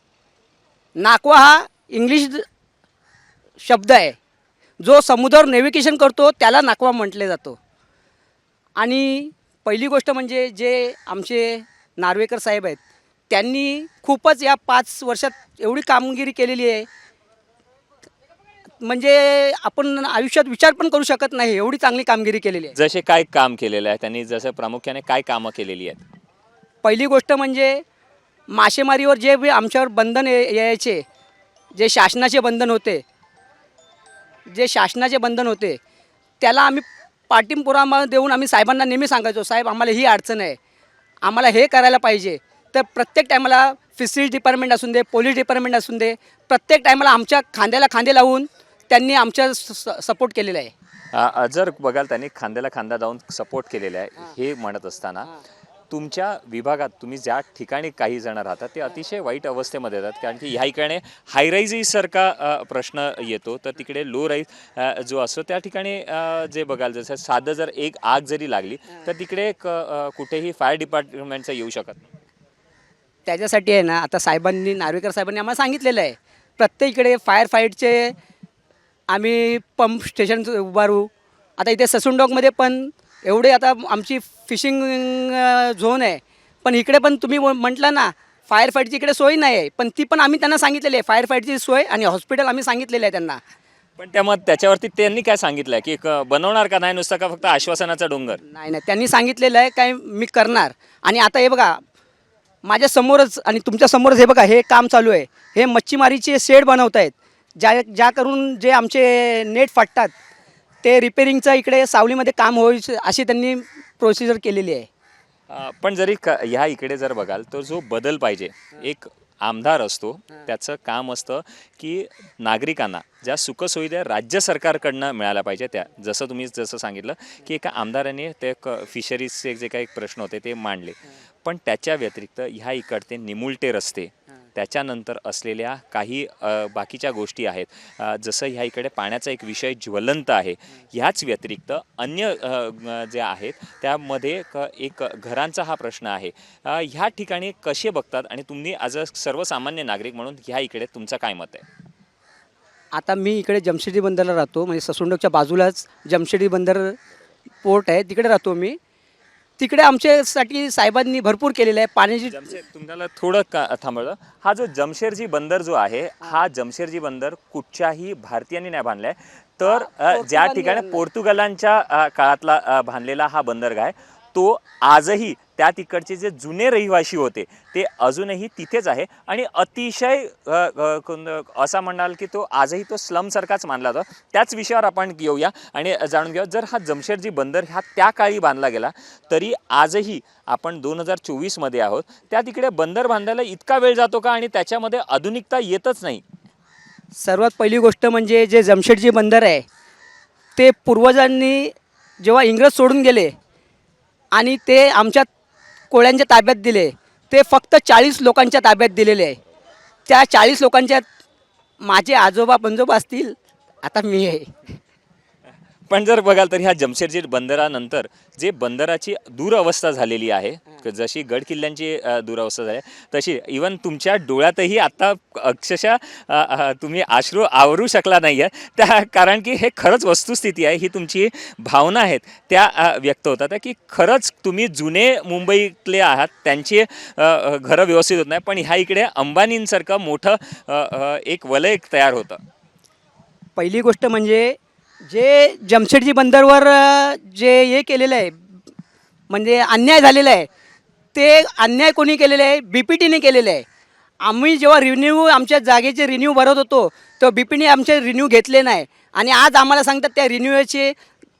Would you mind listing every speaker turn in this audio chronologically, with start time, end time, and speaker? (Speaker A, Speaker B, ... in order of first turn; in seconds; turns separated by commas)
Speaker A: 1.0-2.4, Speaker A: 3.6-4.2, Speaker A: 4.8-7.6, Speaker A: 8.8-16.9, Speaker A: 18.8-22.7, Speaker B: 22.7-26.0, Speaker A: 26.8-27.8, Speaker A: 28.5-31.0, Speaker A: 31.7-33.0, Speaker A: 34.5-35.8, Speaker A: 36.4-40.6, Speaker A: 41.2-50.7, Speaker B: 51.1-55.4, Speaker B: 55.9-72.0, Speaker A: 73.3-78.1, Speaker A: 79.1-93.4, Speaker B: 94.0-98.4, Speaker A: 98.5-101.8, Speaker A: 102.6-110.1, Speaker A: 110.8-114.9, Speaker B: 115.5-151.6, Speaker A: 152.9-157.0, Speaker A: 157.6-158.8, Speaker A: 159.6-162.5, Speaker B: 162.3-196.2, Speaker A: 169.6-171.0, Speaker A: 197.2-199.6, Speaker A: 200.6-203.3, Speaker A: 204.3-205.2, Speaker A: 205.9-209.4, Speaker A: 210.1-211.0, Speaker A: 211.8-214.8, Speaker B: 215.9-242.4, Speaker A: 243.6-244.6, Speaker A: 245.1-248.6, Speaker A: 249.3-250.5, Speaker A: 251.1-253.6, Speaker A: 254.2-260.9